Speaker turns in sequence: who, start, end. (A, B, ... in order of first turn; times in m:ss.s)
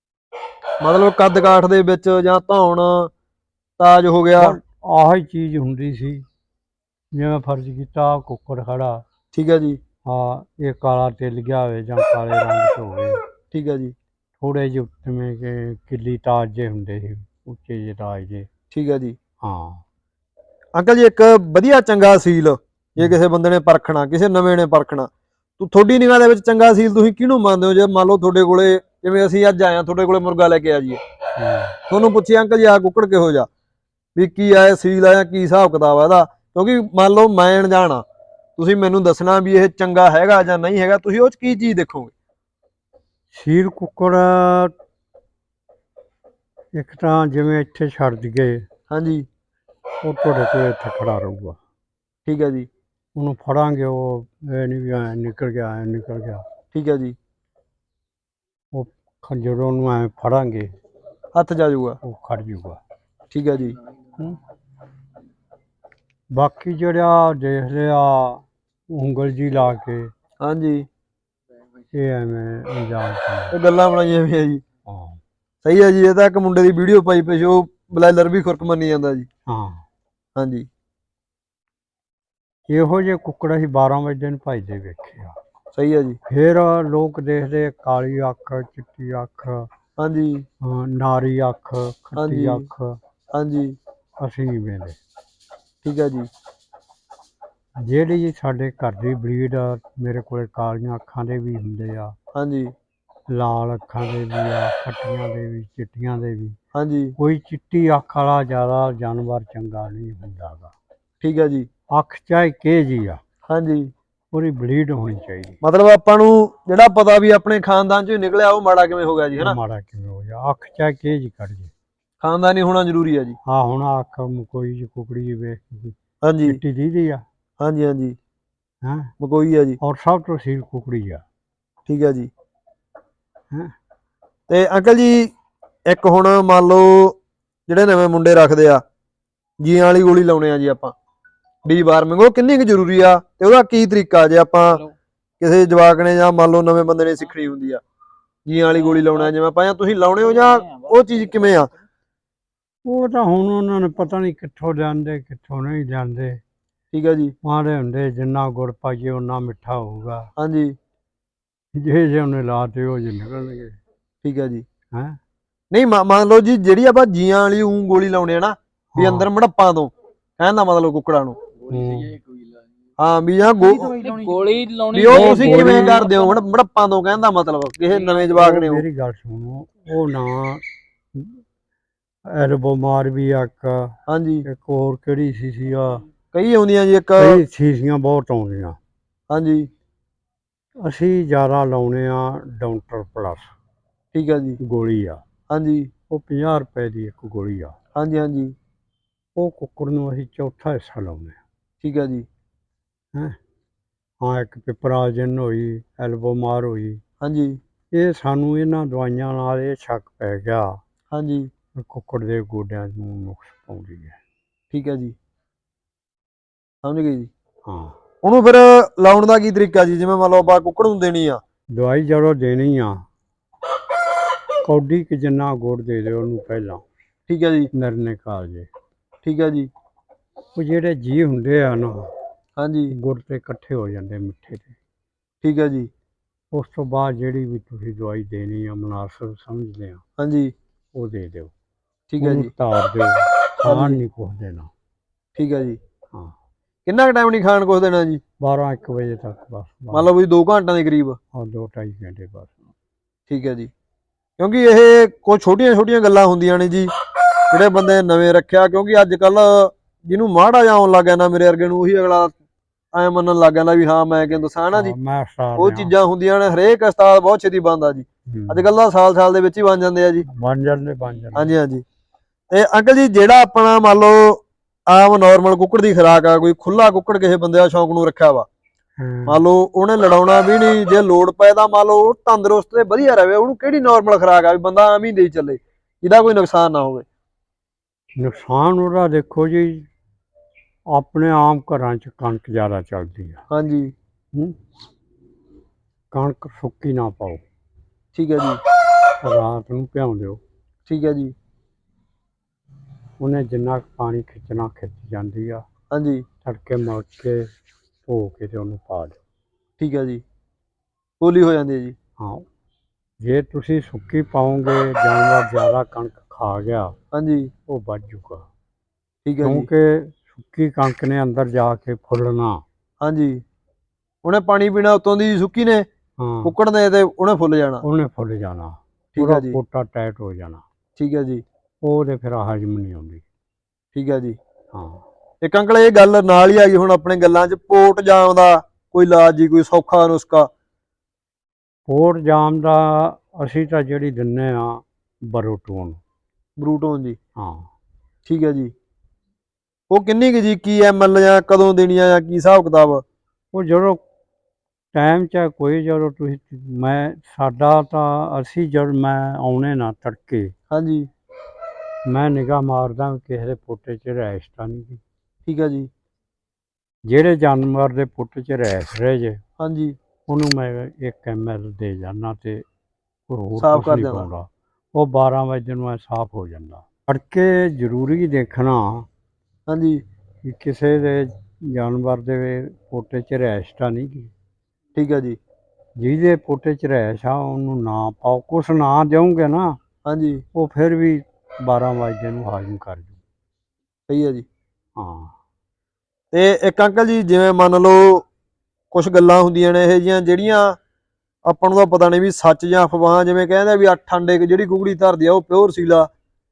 0:00.8-0:03.1 A
0:03.8-0:04.6 A
0:04.4-0:06.2 B
0:07.1-0:09.0 B
0:09.3-0:09.8 A
0:10.1-0:13.2 B
0:13.5-0:14.0 A
0:14.4-0:18.5 B
0:18.7-0:19.2 A
0:19.4-0:19.8 B
0:20.7-0:31.0 A
0:31.4-0:31.8 B
0:31.9-0:33.5 A
0:34.2-0:38.0 A
0:38.6-0:42.1 A
0:43.3-0:44.7 B
0:46.7-0:48.6 B
0:48.9-0:49.3 A
0:50.0-0:51.6 B
0:52.2-0:52.7 A
0:53.1-0:56.4 B
0:56.7-0:57.2 A
0:58.7-1:00.7 B
1:01.4-1:02.0 A
1:02.0-1:02.8 B
1:03.3-1:03.8 A
1:06.3-1:10.1 B
1:10.4-1:10.9 A
1:11.9-1:13.6 B
1:13.5-1:14.6 A
1:14.9-1:15.2 B
1:15.6-1:19.3 A
1:19.5-1:19.8 B
1:20.4-1:20.7 A
1:22.7-1:25.4 B
1:25.8-1:26.2 A
1:26.3-1:29.7 B
1:30.0-1:30.5 A
1:30.6-1:33.0 B
1:32.2-1:32.7 A
1:33.3-1:33.8 A
1:34.2-1:35.0 B
1:35.8-1:36.3 A
1:37.8-1:42.1 B
1:42.3-1:42.7 A
1:43.3-1:46.6 B
1:46.7-1:47.1 A
1:47.2-1:50.7 B
1:51.2-1:51.7 A
1:51.9-1:53.2 B
1:53.5-1:53.9 A
1:54.3-1:55.6 B
1:55.6-1:59.6 A
1:59.4-2:01.7 B
2:02.2-2:03.4 A
2:03.5-2:07.2 B
2:06.2-2:06.6 A
2:07.6-2:08.2 A
2:08.8-2:09.1 B
2:09.2-2:09.8 A
2:09.8-2:11.2 B
2:11.9-2:12.3 A
2:14.5-2:15.3 A
2:15.9-2:18.8 A
2:19.6-2:21.0 A
2:21.6-2:24.8 A
2:25.4-2:27.8 A
2:28.4-2:31.7 A
2:28.7-2:29.3 C
2:30.1-2:31.8 C
2:32.8-2:36.4 B
2:36.9-2:37.3 A
2:37.4-2:40.3 B
2:40.4-2:40.8 A
2:41.8-2:43.8 B
2:44.2-2:44.6 A
2:44.9-2:45.2 B
2:45.7-2:51.4 A
2:48.9-2:49.3 B
2:51.7-2:52.2 B
2:53.0-2:54.0 A
2:53.6-2:56.4 C
2:54.9-2:58.8 A
2:55.1-2:56.0 B
2:57.9-2:58.2 C
2:58.3-3:00.6 B
3:01.1-3:01.4 B
3:02.3-3:06.0 B
3:04.1-3:04.4 A
3:06.3-3:07.4 A
3:07.2-3:08.8 B
3:09.3-3:09.7 A
3:10.8-3:13.5 B
3:14.1-3:14.6 A
3:14.6-3:15.2 B
3:15.5-3:15.9 A
3:16.1-3:17.8 B
3:17.9-3:18.6 A
3:19.4-3:21.4 B
3:21.8-3:22.3 A
3:24.2-3:27.0 B
3:27.2-3:27.6 A
3:27.9-3:30.8 B
3:31.1-3:31.5 A
3:31.8-3:34.2 B
3:34.7-3:35.1 A
3:36.8-3:37.3 A
3:37.6-3:38.0 B
3:38.2-3:41.4 A
3:41.8-3:43.0 B
3:44.6-3:46.8 B
3:47.3-3:47.7 A
3:47.7-3:48.7 B
3:49.2-3:49.7 A
3:50.6-3:52.1 B
3:52.6-3:52.9 A
3:52.9-3:54.8 B
3:55.4-3:55.9 A
3:56.5-4:00.0 B
4:00.2-4:00.5 A
4:00.9-4:01.5 B
4:02.1-4:02.5 A
4:02.2-4:04.7 B
4:03.6-4:04.0 A
4:05.4-4:05.8 A
4:06.9-4:08.2 A
4:08.4-4:10.1 B
4:09.9-4:11.2 A
4:11.3-4:12.7 B
4:13.3-4:13.7 A
4:14.4-4:16.9 A
4:17.5-4:22.4 A
4:22.9-4:24.9 A
4:24.7-4:25.9 B
4:25.6-4:30.2 A
4:28.3-4:28.7 B
4:30.2-4:31.6 B
4:31.4-4:31.8 A
4:32.5-4:38.5 A
4:39.0-4:39.4 B
4:39.3-4:47.1 A
4:48.2-4:49.9 B
4:50.9-4:53.4 B
4:53.5-4:53.9 A
4:56.1-4:57.4 B
4:58.1-4:58.6 A
4:59.2-5:00.4 B
5:00.9-5:01.4 A
5:03.2-5:05.6 B
5:05.9-5:06.3 A
5:06.4-5:07.5 B
5:08.1-5:09.2 B
5:09.8-5:10.2 A
5:11.2-5:12.0 A
5:12.2-5:12.4 B
5:13.2-5:17.0 B
5:17.1-5:17.5 A
5:17.7-5:18.4 B
5:19.2-5:19.7 A
5:19.4-5:22.6 B
5:23.0-5:23.4 A
5:24.2-5:25.9 A
5:26.2-5:26.5 B
5:26.4-5:27.8 A
5:27.8-5:30.6 B
5:29.1-5:29.6 A
5:31.0-5:31.4 A
5:31.8-5:33.2 B
5:33.9-5:34.4 A
5:34.7-5:35.0 B
5:35.4-5:40.5 A
5:41.9-5:46.0 B
5:46.6-5:47.2 A
5:47.4-5:47.7 B
5:48.2-5:48.7 A
5:49.9-5:53.0 A
5:53.5-5:54.0 B
5:54.9-6:00.5 B
6:00.7-6:01.1 A
6:02.1-6:05.0 B
6:05.4-6:05.9 A
6:07.1-6:09.4 B
6:09.6-6:10.0 A
6:10.3-6:12.6 B
6:13.3-6:19.1 B
6:13.6-6:14.3 A
6:19.7-6:20.0 A
6:20.4-6:24.3 B
6:25.0-6:25.4 A
6:26.0-6:29.8 B
6:30.0-6:30.4 A
6:30.6-6:33.2 B
6:34.1-6:34.4 A
6:35.0-6:35.4 B
6:36.3-6:38.3 A
6:38.9-6:40.8 A
6:41.4-6:46.1 A